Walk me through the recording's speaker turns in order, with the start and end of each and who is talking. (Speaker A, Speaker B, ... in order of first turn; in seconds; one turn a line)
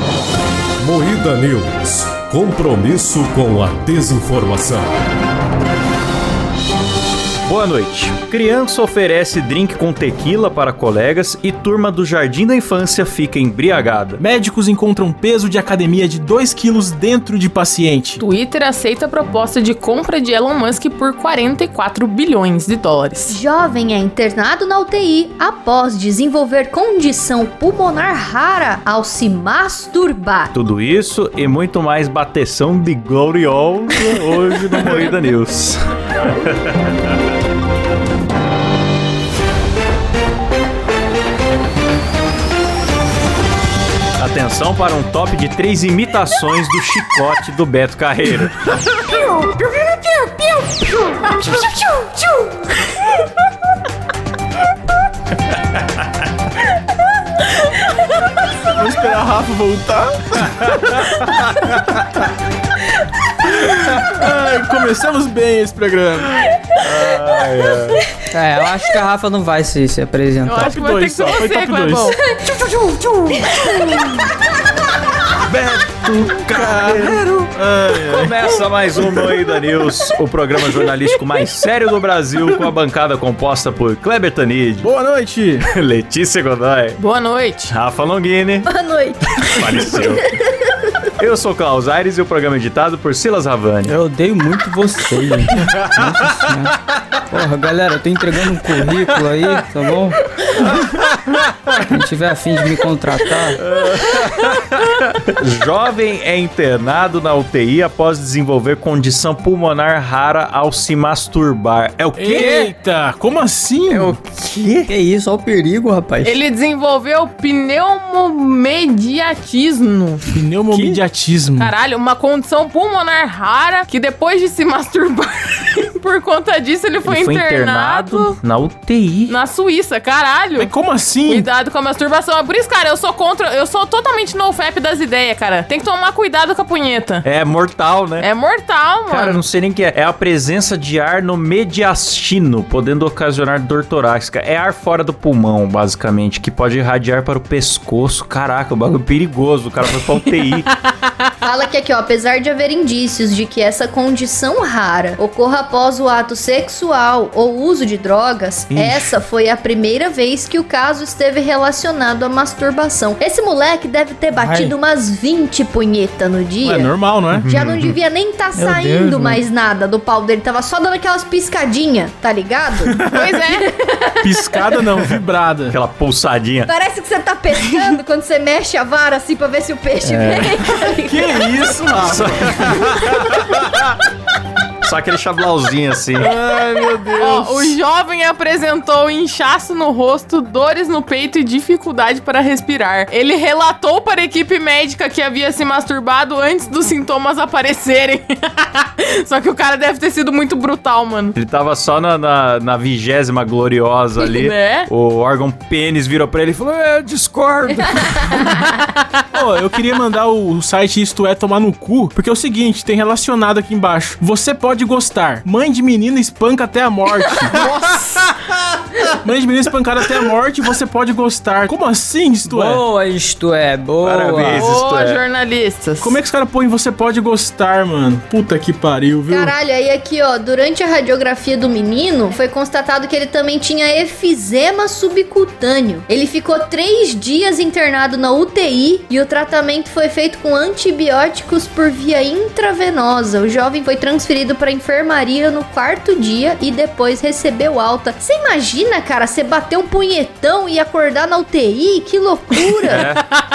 Speaker A: 0.8-4.9
Speaker B: 7.5-14.2
Speaker C: 14.2-18.2
Speaker D: 18.2-23.4
Speaker E: 23.3-30.5
Speaker B: 30.5-36.8
Speaker B: 44.2-48.5
Speaker E: 49.1-52.6
Speaker C: 58.8-60.7
Speaker C: 63.6-66.3
Speaker E: 66.8-67.6
Speaker B: 66.8-68.0
Speaker F: 68.3-70.8
Speaker D: 70.4-72.2
Speaker C: 70.6-72.1
Speaker E: 72.1-74.3
Speaker B: 75.5-84.9
Speaker C: 75.8-79.2
Speaker C: 84.8-85.7
Speaker B: 85.7-87.0
Speaker D: 87.0-87.7
Speaker B: 87.7-88.7
Speaker E: 88.6-90.4
Speaker B: 89.6-90.2
Speaker B: 91.2-94.0
Speaker F: 93.8-96.7
Speaker B: 95.7-96.5
Speaker F: 97.3-100.2
Speaker B: 99.2-99.6
Speaker F: 101.7-103.6
Speaker B: 103.6-112.4
Speaker C: 112.1-114.2
Speaker F: 112.4-112.7
Speaker B: 113.9-114.9
Speaker F: 114.8-116.4
Speaker D: 116.2-120.2
Speaker C: 120.3-121.7
Speaker B: 120.7-121.0
Speaker D: 121.6-128.3
Speaker B: 127.0-129.3
Speaker D: 129.3-130.7
Speaker C: 130.6-131.5
Speaker D: 131.2-137.2
Speaker B: 137.2-138.3
Speaker D: 138.2-139.4
Speaker B: 139.1-150.7
Speaker D: 150.0-150.7
Speaker E: 151.4-166.9
Speaker C: 158.7-159.2
Speaker F: 164.3-164.8
Speaker C: 166.6-167.4
Speaker B: 167.3-167.9
Speaker E: 167.4-174.8
Speaker F: 168.5-169.4
Speaker D: 173.1-173.7
Speaker C: 174.2-175.8
Speaker B: 175.7-176.7
Speaker E: 176.7-181.8
Speaker B: 180.1-180.4
Speaker C: 181.0-182.8
Speaker B: 182.1-183.8
Speaker E: 182.5-183.5
Speaker B: 184.8-187.6
Speaker C: 186.2-187.2
Speaker D: 187.1-201.3
Speaker B: 201.3-208.5
Speaker D: 204.2-204.9
Speaker E: 207.7-208.7
Speaker C: 209.3-217.6
Speaker C: 219.2-222.8
Speaker F: 222.4-224.7
Speaker B: 224.1-225.2
Speaker D: 224.5-226.2
Speaker C: 226.0-229.5
Speaker E: 229.3-253.1
Speaker D: 252.7-253.1
Speaker B: 252.9-253.2